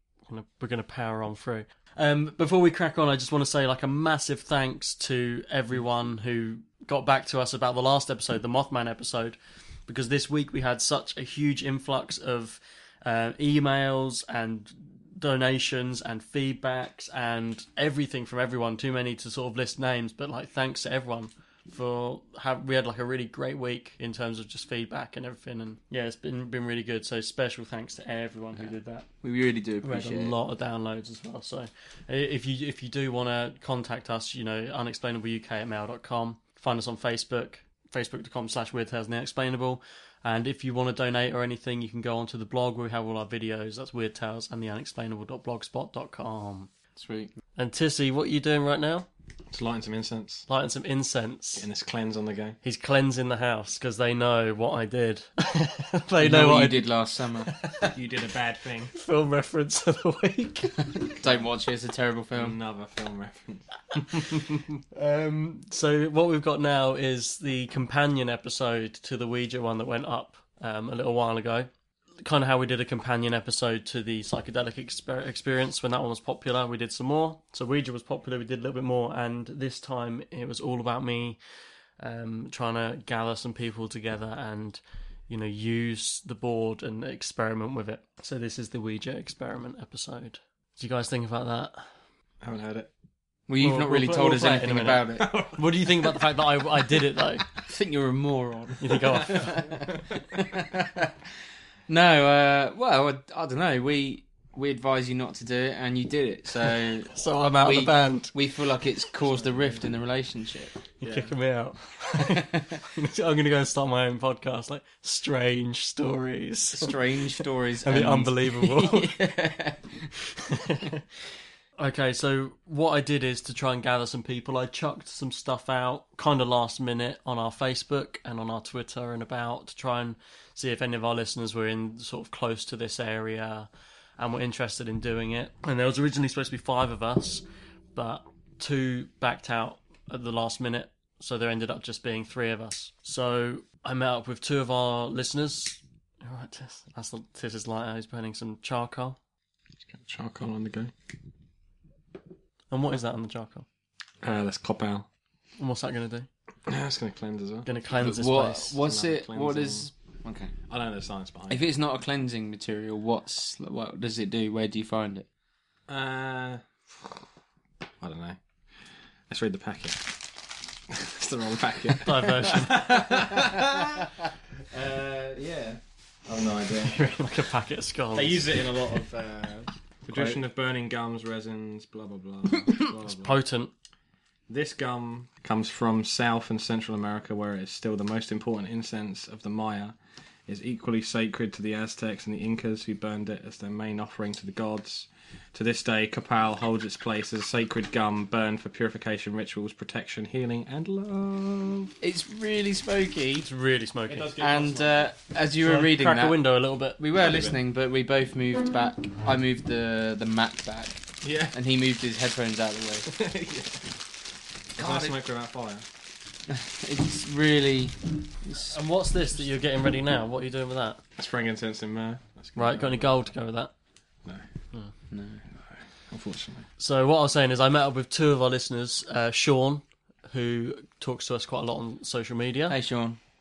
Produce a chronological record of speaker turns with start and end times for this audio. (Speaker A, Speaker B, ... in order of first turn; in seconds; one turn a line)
Speaker A: 0.3-29.1
Speaker B: 29.2-30.4
Speaker A: 29.8-46.7
Speaker B: 47.0-47.3
Speaker A: 47.6-49.1
Speaker C: 49.5-50.5
Speaker A: 50.5-51.6
Speaker C: 51.6-52.6
Speaker A: 52.6-56.9
Speaker B: 56.2-57.6
Speaker A: 57.5-57.7
Speaker C: 57.8-58.9
Speaker A: 59.0-61.0
Speaker B: 61.2-62.6
Speaker C: 61.2-61.5
Speaker C: 62.4-64.5
Speaker A: 64.9-71.7
Speaker A: 72.2-81.4
Speaker A: 82.0-91.9
Speaker C: 92.4-92.9
Speaker B: 93.5-95.3
Speaker A: 93.6-97.5
Speaker C: 95.2-95.9
Speaker B: 97.6-99.7
Speaker A: 98.8-99.9
Speaker B: 100.3-101.1
Speaker B: 101.9-110.7
Speaker A: 107.1-108.3
Speaker A: 111.0-116.9
Speaker C: 111.0-111.3
Speaker B: 116.7-120.1
Speaker A: 117.8-119.1
Speaker A: 120.5-121.0
Speaker A: 121.8-137.4
Speaker A: 137.9-149.2
Speaker C: 149.9-150.9
Speaker A: 152.7-153.7
Speaker C: 154.2-155.1
Speaker A: 155.6-156.3
Speaker C: 156.7-157.7
Speaker A: 157.7-158.8
Speaker B: 158.0-160.5
Speaker C: 158.8-159.9
Speaker C: 160.7-161.7
Speaker B: 161.5-165.3
Speaker C: 165.9-166.6
Speaker C: 168.0-168.4
Speaker C: 169.3-170.2
Speaker C: 170.9-174.2
Speaker A: 172.1-172.8
Speaker C: 174.7-177.0
Speaker A: 176.8-178.5
Speaker C: 178.2-183.4
Speaker A: 183.2-183.7
Speaker C: 184.5-190.0
Speaker C: 190.5-201.9
Speaker B: 202.0-203.5
Speaker A: 203.4-204.4
Speaker C: 204.1-205.1
Speaker B: 204.4-206.4
Speaker A: 205.6-207.0
Speaker B: 207.0-213.1
Speaker C: 207.2-207.6
Speaker C: 211.2-211.6
Speaker C: 213.1-213.9
Speaker C: 214.8-215.8
Speaker B: 214.8-215.2
Speaker B: 216.5-218.8
Speaker A: 218.6-221.0
Speaker C: 221.2-223.3
Speaker A: 222.6-223.7
Speaker B: 225.1-225.4
Speaker C: 226.1-226.7
Speaker A: 226.8-232.8
Speaker B: 232.7-233.2